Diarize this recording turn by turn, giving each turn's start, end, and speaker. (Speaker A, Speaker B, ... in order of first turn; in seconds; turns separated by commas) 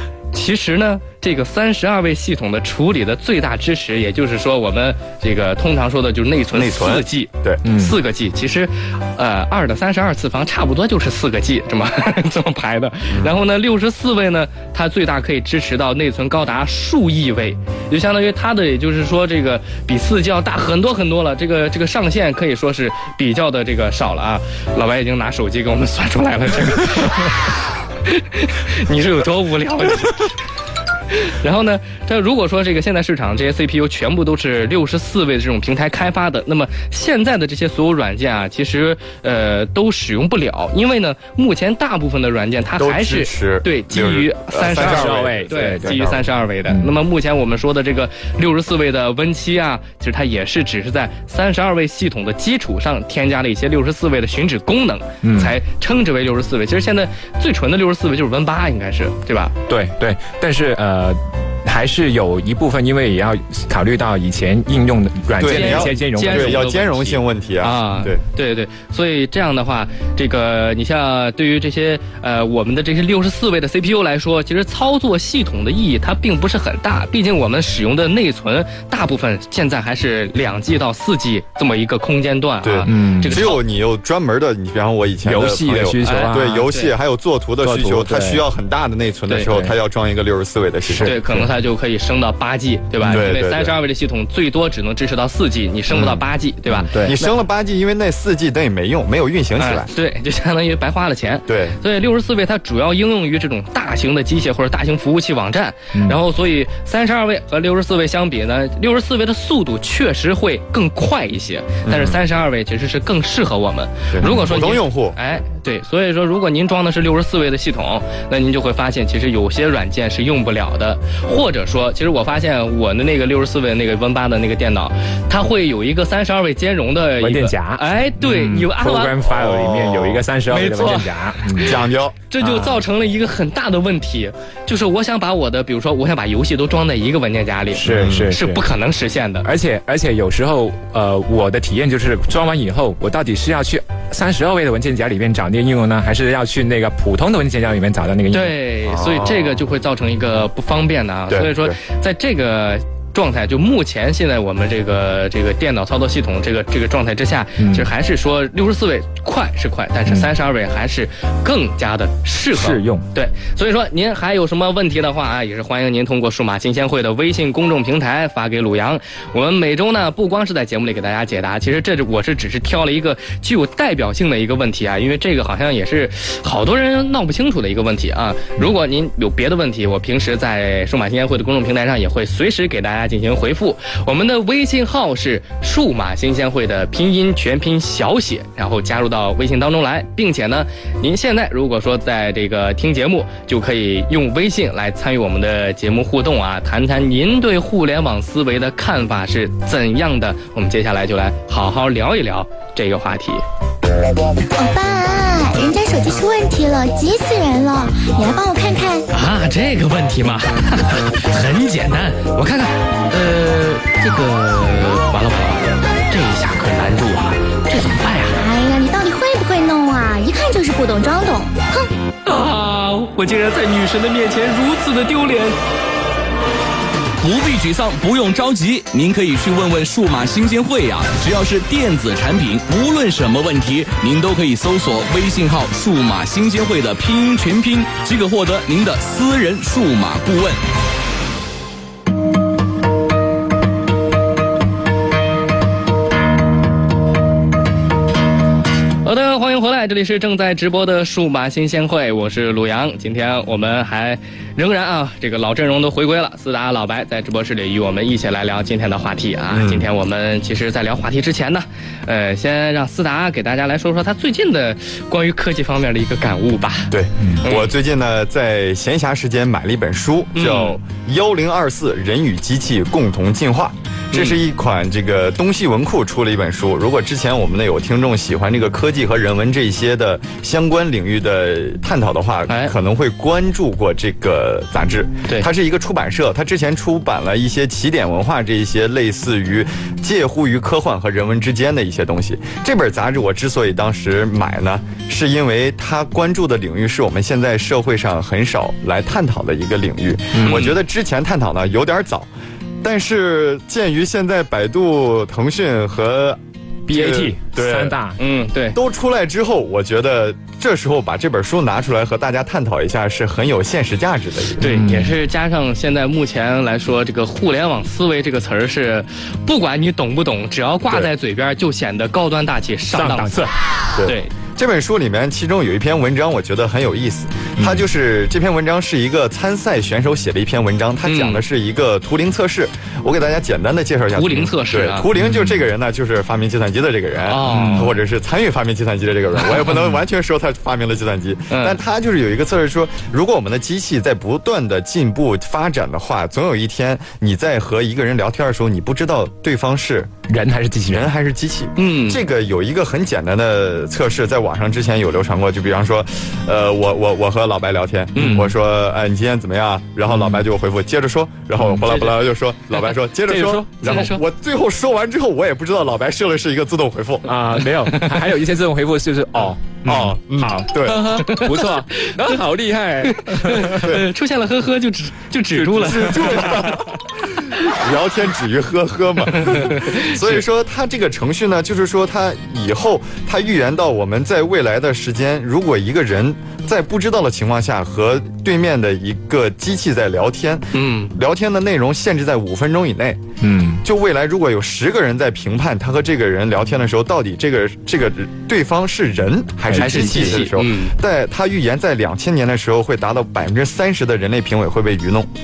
Speaker A: 0.3-27.4, Speaker B: 6.5-7.6, Speaker C: 7.6-8.0, Speaker A: 28.1-30.3, Speaker A: 31.1-59.5, Speaker B: 42.8-46.3, Speaker C: 44.7-46.0, Speaker C: 55.2-55.5, Speaker C: 59.7-66.6, Speaker B: 65.4-68.2, Speaker A: 65.4-83.6, Speaker B: 82.6-91.1, Speaker C: 82.9-83.4, Speaker C: 85.2-86.7, Speaker A: 86.0-86.9, Speaker C: 87.6-88.4, Speaker C: 90.9-91.5, Speaker A: 91.0-97.3, Speaker B: 93.0-93.8, Speaker B: 95.9-99.9, Speaker C: 96.9-97.2, Speaker A: 99.6-129.2, Speaker B: 101.5-101.8, Speaker B: 111.8-112.2, Speaker B: 114.1-115.2, Speaker C: 127.2-131.8, Speaker B: 129.2-130.3, Speaker A: 130.5-131.7, Speaker B: 131.6-132.2, Speaker A: 132.3-139.5, Speaker C: 132.4-132.8, Speaker C: 137.7-138.6, Speaker B: 137.8-138.3, Speaker C: 139.4-148.6, Speaker A: 148.3-203.4, Speaker B: 148.9-149.6, Speaker B: 151.3-151.8, Speaker C: 157.6-157.9, Speaker C: 162.5-163.1, Speaker D: 204.6-209.0, Speaker A: 209.1-218.4, Speaker D: 217.7-221.9, Speaker A: 222.2-225.6, Speaker E: 227.2-240.6, Speaker A: 249.0-266.9, Speaker B: 259.5-259.9, Speaker B: 266.9-302.3, Speaker A: 267.4-267.7, Speaker A: 270.3-270.8, Speaker A: 274.1-274.4, Speaker A: 282.5-282.7, Speaker C: 300.3-300.6, Speaker A: 300.4-300.8, Speaker B: 302.8-307.9, Speaker C: 306.9-308.2, Speaker A: 308.2-308.8, Speaker B: 308.7-314.6, Speaker A: 314.6-323.4, Speaker C: 314.6-315.1, Speaker C: 322.9-323.5, Speaker B: 323.9-350.1, Speaker A: 324.0-324.3, Speaker C: 327.6-327.8, Speaker A: 331.0-331.4, Speaker A: 334.1-335.1, Speaker C: 335.2-335.6, Speaker A: 337.3-337.9, Speaker C: 337.5-337.9, Speaker A: 341.5-341.8, Speaker C: 350.3-351.1, Speaker B: 350.9-367.3, Speaker A: 351.8-352.2, Speaker A: 358.1-358.5, Speaker C: 358.2-358.4, Speaker C: 360.1-360.4, Speaker C: 361.6-361.9, Speaker C: 363.3-364.1, Speaker A: 363.8-364.2, Speaker C: 367.2-373.9, Speaker A: 367.9-368.1, Speaker B: 369.8-371.2, Speaker A: 371.2-372.4, Speaker A: 373.0-376.5, Speaker C: 375.6-376.9, Speaker B: 375.7-393.2, Speaker A: 379.3-380.4, Speaker A: 390.7-391.1, Speaker C: 393.4-393.8, Speaker B: 393.8-405.3, Speaker C: 399.7-400.4, Speaker A: 399.8-400.9